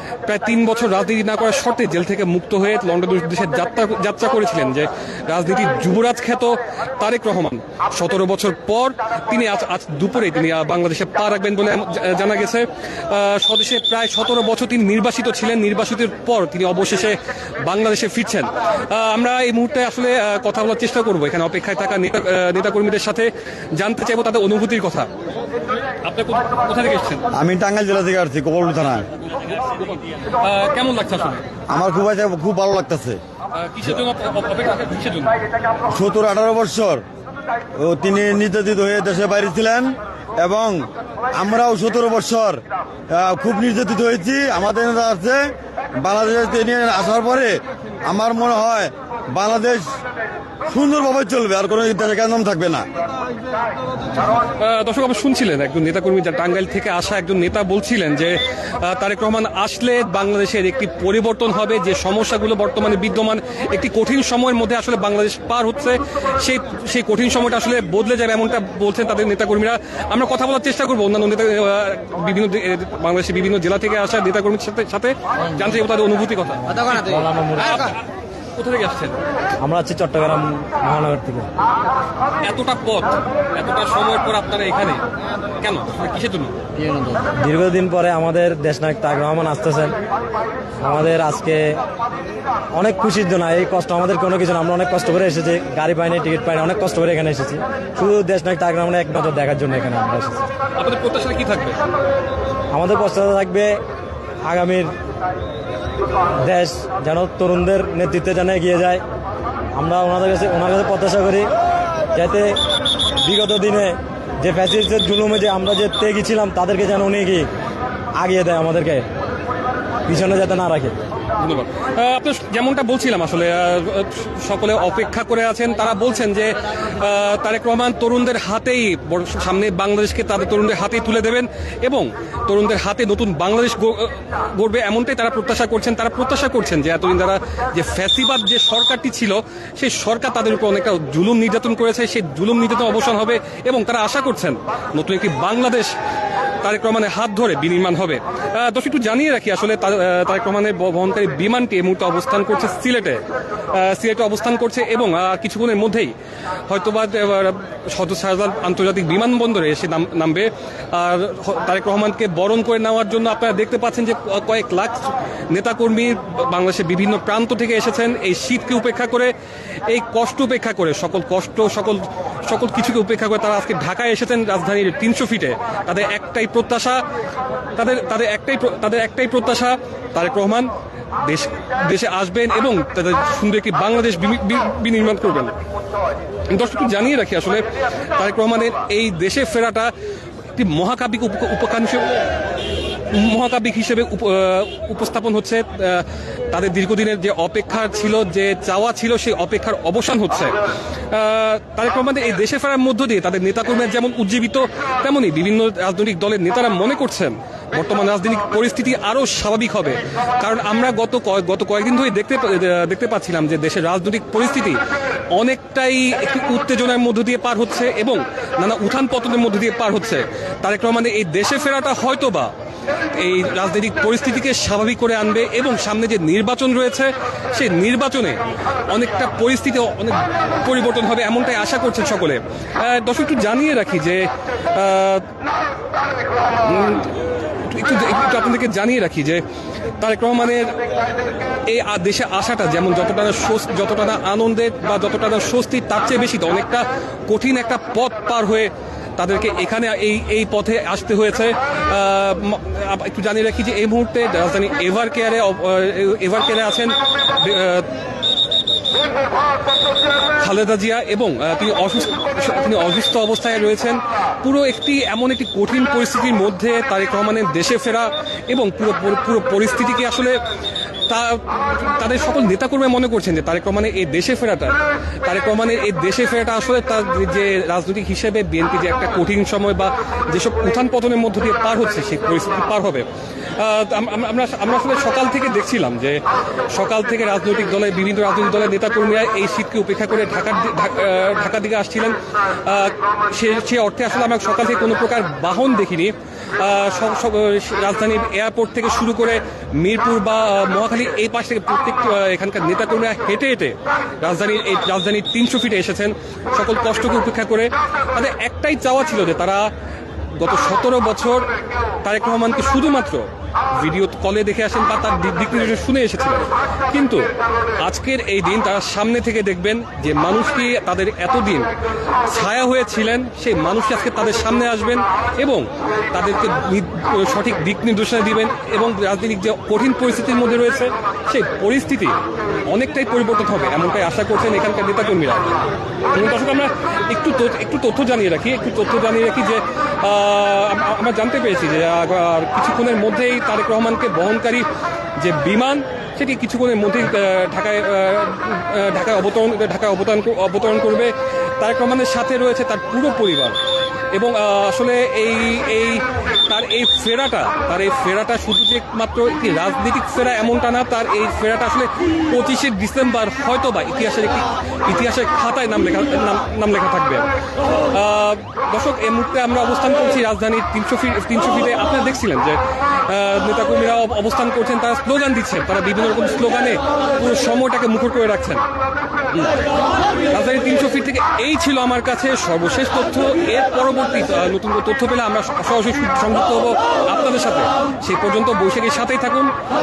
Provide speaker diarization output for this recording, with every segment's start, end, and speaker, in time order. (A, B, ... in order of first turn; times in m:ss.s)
0:00.2-0:25.1 A
0:26.0-0:27.2 A
0:27.3-0:29.1 B
0:29.4-0:31.4 A
0:31.7-0:33.2 B
0:33.5-0:35.4 A
0:35.9-0:37.0 B
0:37.8-0:49.9 B
0:50.7-0:52.8 B
0:54.6-1:17.0 A
1:16.8-1:17.9 C
1:17.6-1:18.0 A
1:18.6-1:19.1 A
1:19.6-1:21.5 C
1:22.4-1:25.0 A
1:25.6-1:26.7 A
1:27.4-1:29.9 C
1:30.8-1:31.8 C
1:32.8-1:40.4 C
1:40.8-1:41.8 A
1:42.7-1:43.7 C
1:44.5-1:44.9 C
1:46.4-1:49.0 C
1:49.7-1:51.5 C
1:52.1-1:52.6 C
1:53.2-1:57.5 C
1:58.2-1:59.0 C
2:00.1-2:00.9 C
2:01.4-2:25.9 A
2:26.6-2:36.1 A
2:36.7-2:49.3 A
2:49.9-2:57.0 A
2:57.7-3:00.7 A
3:01.2-3:05.5 A
3:06.5-3:07.6 A
3:08.2-3:09.9 A
3:10.5-3:12.1 A
3:13.1-3:20.6 A
3:21.1-3:34.8 A
3:35.3-3:42.5 A
3:43.1-3:55.2 A
3:56.6-3:59.4 A
4:00.0-4:00.8 A
4:01.6-4:17.9 A
4:20.4-4:30.4 A
4:31.1-5:09.7 A
5:10.4-5:11.5 A
5:12.0-5:17.2 A
5:17.8-5:21.7 A
5:22.3-5:44.6 A
5:45.2-5:53.6 A
5:54.1-6:18.6 A
6:19.3-6:19.6 A
6:20.3-6:29.5 A